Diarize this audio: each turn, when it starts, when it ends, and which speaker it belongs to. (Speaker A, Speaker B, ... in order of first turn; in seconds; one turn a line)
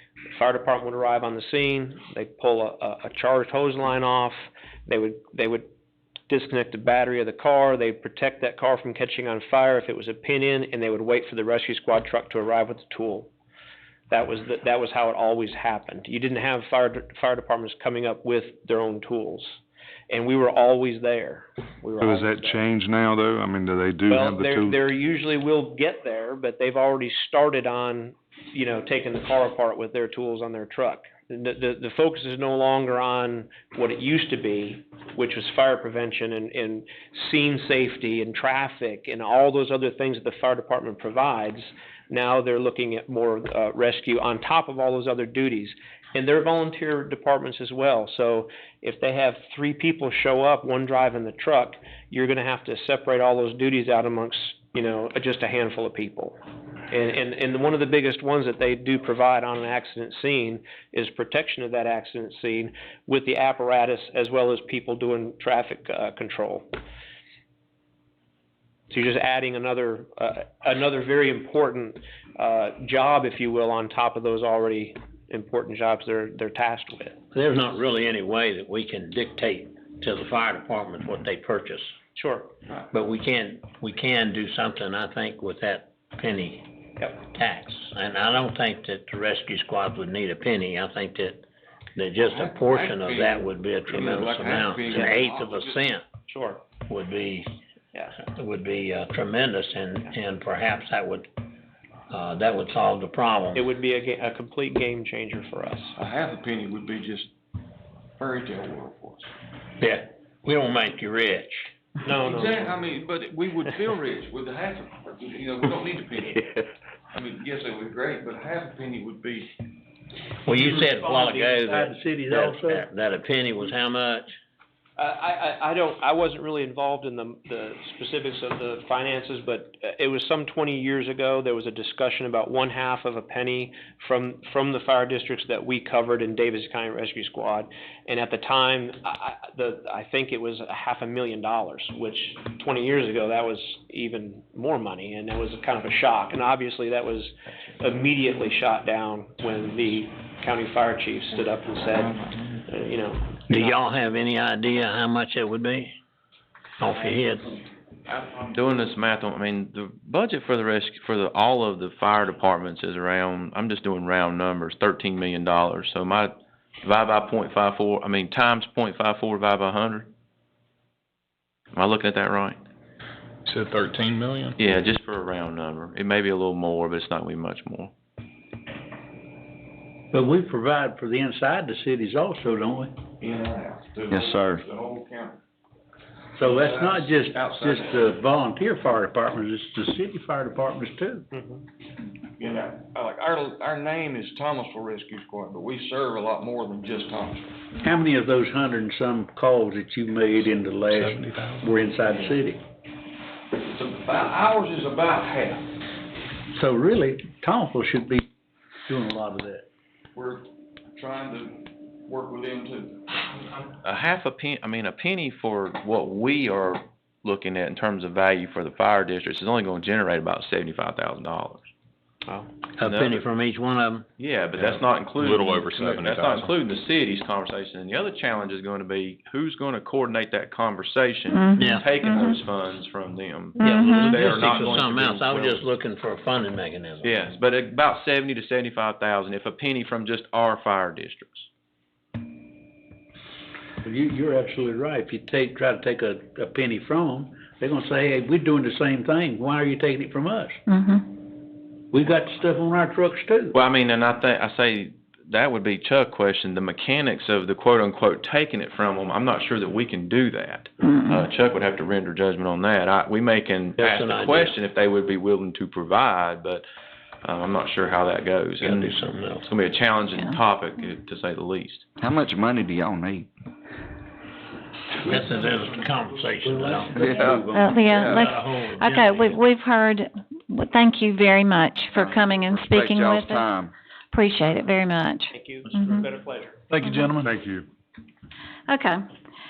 Speaker A: 0.3-5.7
Speaker A: 6.3-13.3
Speaker A: 14.1-22.6
Speaker B: 22.0-24.8
Speaker A: 24.1-56.4
Speaker A: 56.9-66.7
Speaker A: 68.9-77.2
Speaker C: 77.3-81.9
Speaker A: 82.1-82.5
Speaker C: 82.9-96.0
Speaker D: 92.1-95.9
Speaker A: 96.3-96.6
Speaker C: 96.8-97.5
Speaker C: 98.2-101.3
Speaker C: 102.1-103.6
Speaker A: 103.5-105.9
Speaker D: 106.0-107.3
Speaker D: 108.2-109.3
Speaker C: 109.8-111.7
Speaker A: 112.0-112.8
Speaker D: 112.2-116.4
Speaker D: 117.1-119.5
Speaker C: 120.5-124.3
Speaker E: 120.6-122.9
Speaker A: 125.0-153.8
Speaker C: 153.5-155.9
Speaker C: 156.8-157.6
Speaker F: 158.1-170.1
Speaker F: 171.7-172.6
Speaker G: 173.4-174.6
Speaker F: 174.6-177.9
Speaker E: 180.1-182.9
Speaker D: 183.2-185.4
Speaker B: 184.1-184.6
Speaker E: 186.4-191.2
Speaker D: 186.4-188.1
Speaker A: 191.3-191.6
Speaker D: 192.4-197.6
Speaker E: 197.8-202.6
Speaker G: 201.0-201.6
Speaker D: 203.6-205.7
Speaker E: 206.5-208.2
Speaker E: 208.9-209.7
Speaker D: 210.1-213.2
Speaker F: 213.7-221.7
Speaker C: 222.8-224.1
Speaker F: 222.8-223.2
Speaker F: 224.2-235.7
Speaker B: 225.2-226.2
Speaker G: 225.3-226.5
Speaker H: 231.3-232.3
Speaker C: 231.6-231.9
Speaker H: 233.6-234.2
Speaker C: 233.6-237.3
Speaker F: 237.0-241.5
Speaker E: 243.8-250.6
Speaker H: 250.7-251.0
Speaker E: 251.9-253.6
Speaker F: 253.5-266.6
Speaker H: 260.9-261.1
Speaker C: 263.8-264.6
Speaker F: 267.2-271.8
Speaker C: 268.6-269.5
Speaker B: 272.0-273.3
Speaker C: 275.0-277.1
Speaker D: 275.3-275.6
Speaker E: 276.4-278.1
Speaker B: 277.0-278.2
Speaker H: 277.5-283.5
Speaker C: 278.0-279.4
Speaker B: 281.9-283.7
Speaker H: 284.1-286.0
Speaker A: 285.3-286.6
Speaker E: 286.7-287.3
Speaker H: 286.8-287.1
Speaker B: 287.1-287.6
Speaker H: 288.7-289.1